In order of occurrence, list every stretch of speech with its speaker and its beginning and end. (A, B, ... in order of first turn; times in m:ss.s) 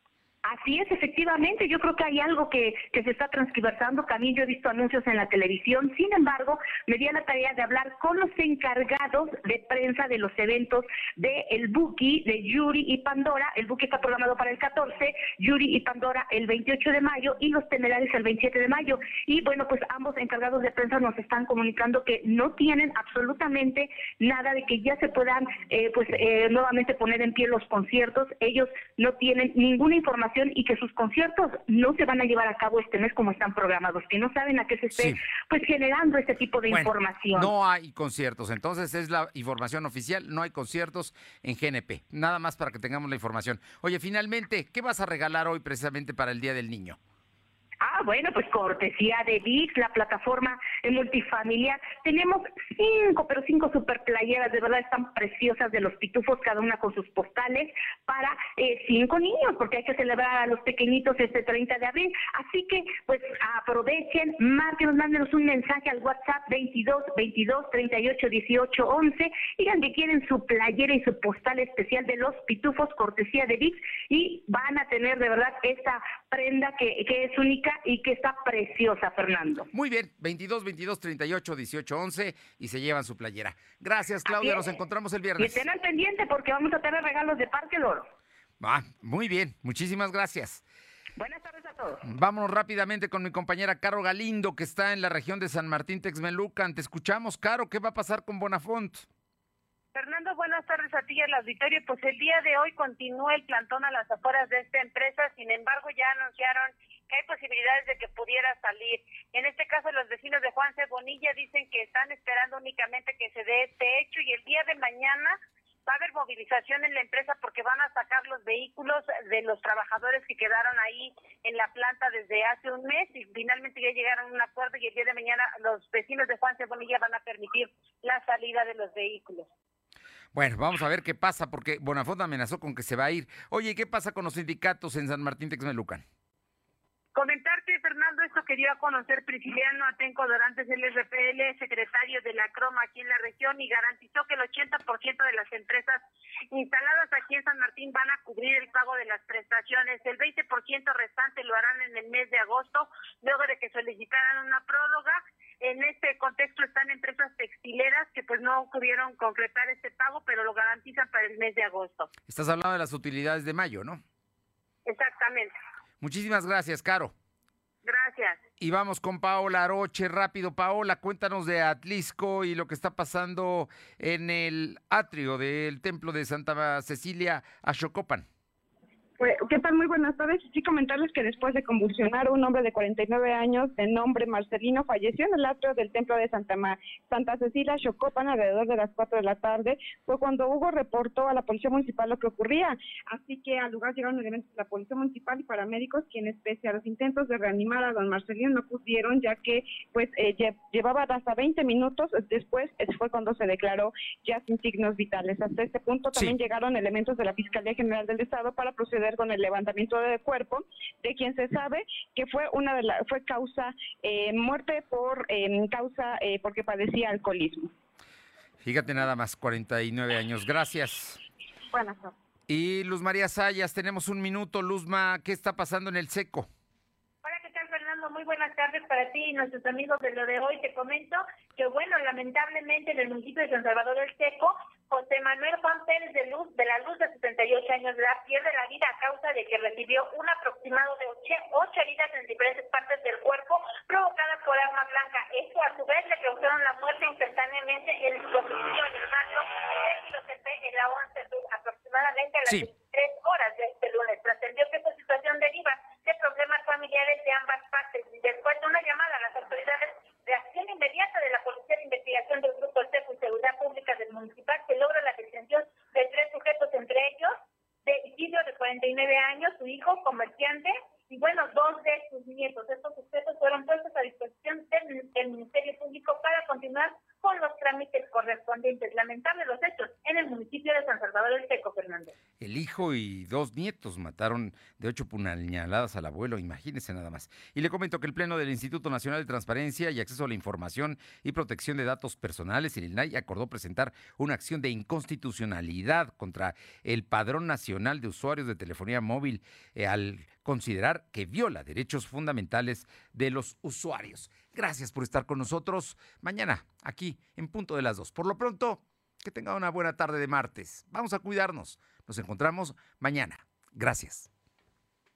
0:00.4-0:37.5 A
0:36.7-0:47.0 B
0:47.8-1:19.7 A
1:19.7-1:25.6 B
1:24.3-1:24.6 A
1:25.4-1:28.1 A
1:28.6-1:30.6 B
1:31.2-1:32.0 A
1:32.0-1:39.1 B
1:40.0-1:55.3 C
1:55.9-2:09.5 C
2:10.3-2:16.0 B
2:17.3-2:19.5 C
2:22.4-2:25.8 C
2:26.5-2:42.1 C
2:42.3-2:44.0 B
2:46.0-2:47.1 B
2:48.6-2:58.3 B
2:59.2-3:37.7 D
3:38.6-3:41.2 B
3:41.7-3:42.1 D
3:42.5-3:46.5 B
3:47.2-4:09.2 C
4:09.9-4:27.3 C
4:27.9-4:42.1 C
4:42.4-5:14.3 B